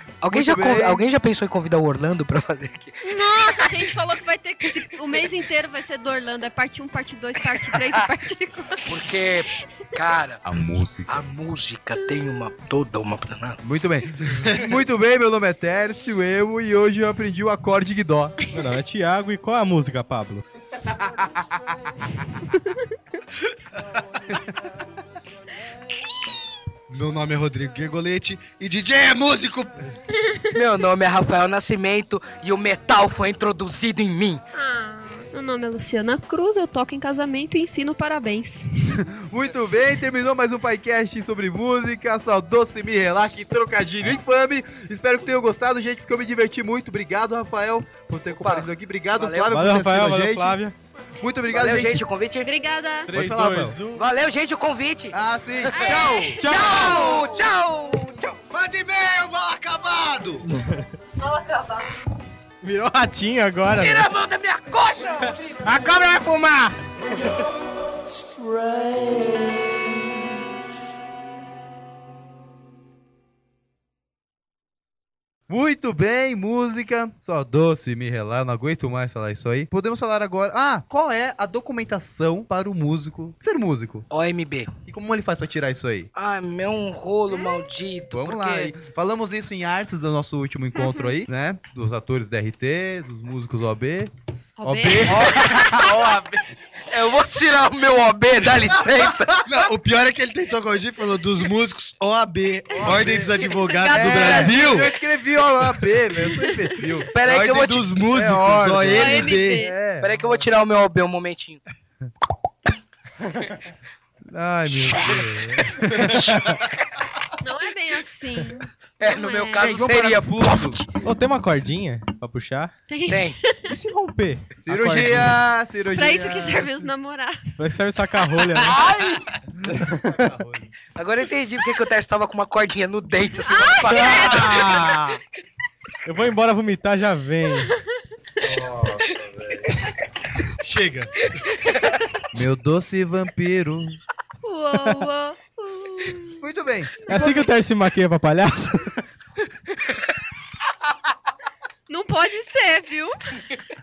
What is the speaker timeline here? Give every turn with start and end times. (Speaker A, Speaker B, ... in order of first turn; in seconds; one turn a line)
Speaker A: 0.2-3.7
Speaker B: 0.3-1.0
Speaker C: 3.0-8.9
Speaker A: 8.8-10.4
Speaker B: 10.4-11.3
Speaker A: 11.1-13.6
Speaker B: 13.6-18.4
Speaker D: 18.5-20.4
Speaker C: 22.5-22.8
Speaker E: 26.9-29.9
Speaker C: 30.2-30.5
Speaker A: 30.5-34.4
Speaker C: 34.5-39.0
Speaker B: 38.9-50.6
Speaker A: 48.3-49.6
Speaker D: 49.5-50.8
Speaker B: 51.2-52.0
Speaker A: 51.5-52.5
Speaker C: 52.4-53.1
Speaker D: 53.1-54.1
Speaker B: 53.1-53.8
Speaker A: 53.9-58.4
Speaker B: 55.1-56.4
Speaker C: 55.7-57.5
Speaker D: 56.4-57.0
Speaker E: 58.5-60.5
Speaker D: 60.5-60.9
Speaker C: 61.2-62.0
Speaker D: 62.6-64.1
Speaker A: 63.7-65.6
Speaker D: 65.2-66.8
Speaker B: 75.5-84.1
Speaker A: 84.1-84.7
Speaker B: 84.9-86.1
Speaker A: 86.2-88.8
Speaker C: 87.3-87.7
Speaker B: 88.1-94.1
Speaker C: 90.8-91.1
Speaker C: 94.6-95.9
Speaker B: 94.6-96.5
Speaker A: 95.1-95.8
Speaker A: 96.9-99.5
Speaker E: 99.4-104.9
Speaker A: 102.7-104.6
Speaker B: 102.8-103.4
Speaker C: 103.7-104.7
Speaker B: 104.0-107.1
Speaker C: 106.3-106.5
Speaker A: 107.1-108.0
Speaker E: 107.2-109.7
Speaker B: 108.1-110.5
Speaker C: 108.9-109.8
Speaker A: 110.0-111.6
Speaker B: 114.3-116.5
Speaker D: 116.1-116.6
Speaker C: 117.4-119.7
Speaker A: 119.0-120.9
Speaker B: 119.6-120.8
Speaker D: 121.0-122.7
Speaker C: 122.9-123.7
Speaker A: 123.1-123.4
Speaker D: 123.7-125.4
Speaker B: 124.6-126.7
Speaker C: 125.9-127.6
Speaker D: 127.6-128.8
Speaker A: 128.6-129.3
Speaker B: 129.6-130.7
Speaker D: 129.7-130.3
Speaker A: 131.0-134.9
Speaker C: 133.5-134.2
Speaker D: 133.9-135.2
Speaker D: 136.1-137.7
Speaker B: 138.4-139.8
Speaker E: 140.6-141.3
Speaker C: 141.6-142.0
Speaker B: 142.3-144.0
Speaker C: 144.4-146.4
Speaker B: 146.4-147.5
Speaker D: 147.1-149.0
Speaker C: 147.1-147.4
Speaker C: 151.9-153.6